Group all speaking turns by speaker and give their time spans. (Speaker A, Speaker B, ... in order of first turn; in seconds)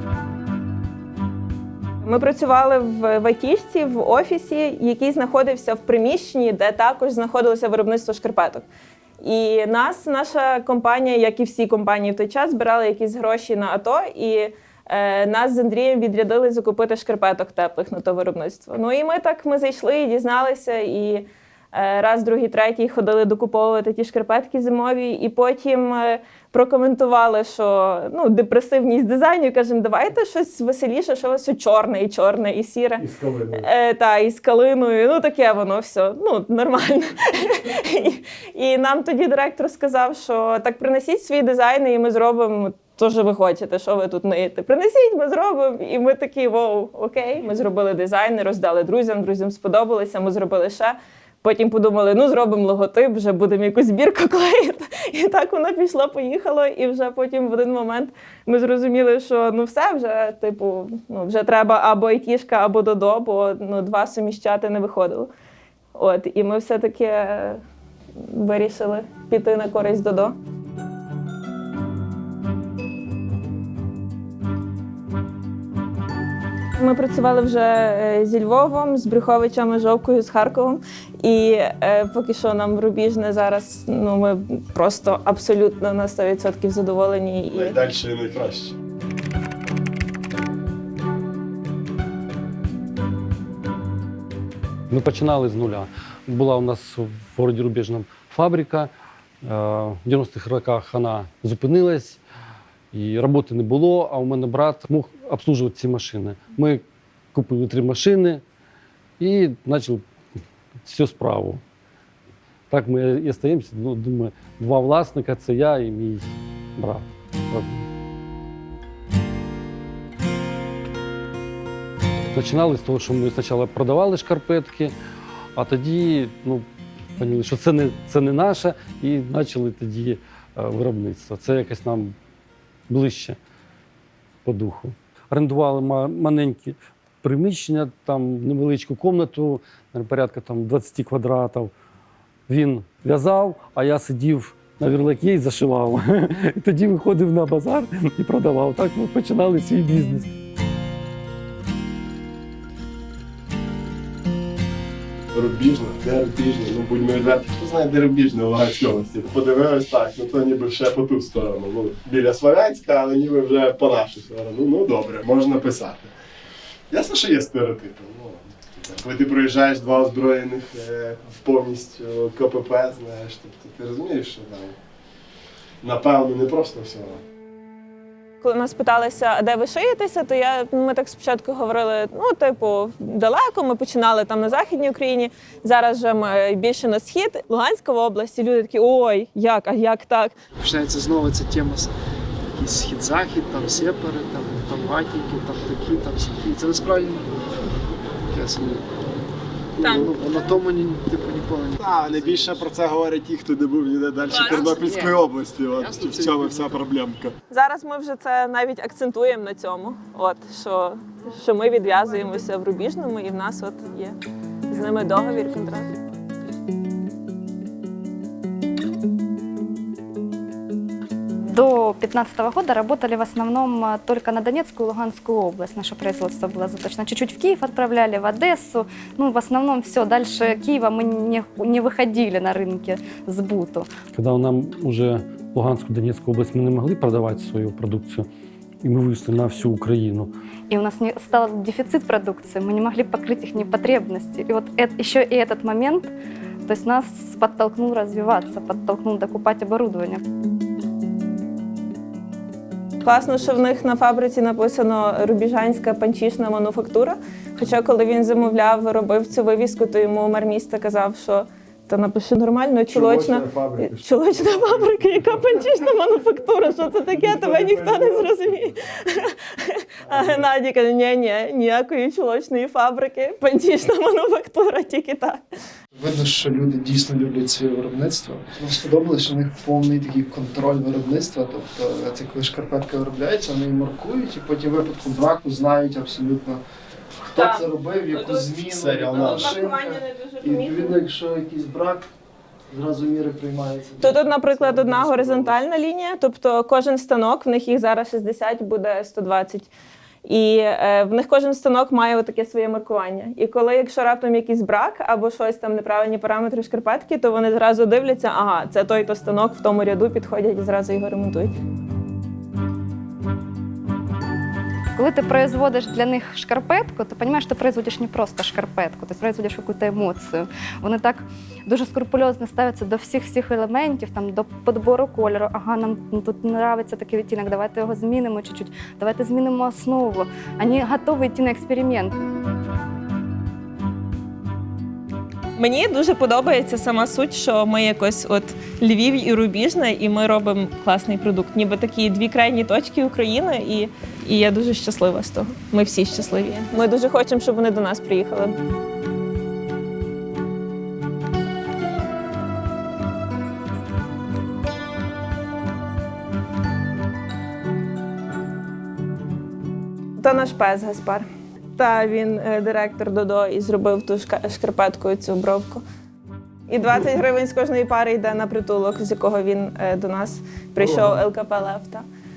Speaker A: 2.0-8.7, 9.2-33.0, 33.6-65.3, 66.0-67.6, 68.2-70.3, 76.8-87.8, 178.4-190.3, 199.8-200.2, 204.3-204.8, 207.5-214.2, 214.7-215.9, 253.0-275.4, 287.4-291.0, 294.0-299.7, 300.2-311.5, 335.6-348.6, 360.2-361.2, 361.8-365.8, 366.7-372.1
Speaker B: 33.0-33.6, 87.5-88.7, 155.3-166.1, 166.9-174.8, 175.8-177.2, 201.8-207.3, 262.9-265.4, 267.2-268.4, 288.7-289.5
Speaker C: 94.9-98.9, 99.4-102.2, 102.9-106.8, 107.3-108.4, 109.2-110.0, 110.9-111.6, 112.7-116.2, 116.8-117.8, 122.3-124.9, 125.6-126.7, 127.2-132.1, 132.9-133.4, 134.4-141.7, 142.5-150.3, 234.1-238.3, 238.8-240.3
Speaker D: 190.6-191.9, 192.6-197.2, 198.3-198.8, 199.8-202.7, 204.4-206.8, 275.9-286.6, 287.2-292.1, 292.7-295.6
Speaker E: 221.5-233.9, 240.7-246.1, 246.7-250.2, 314.9-332.1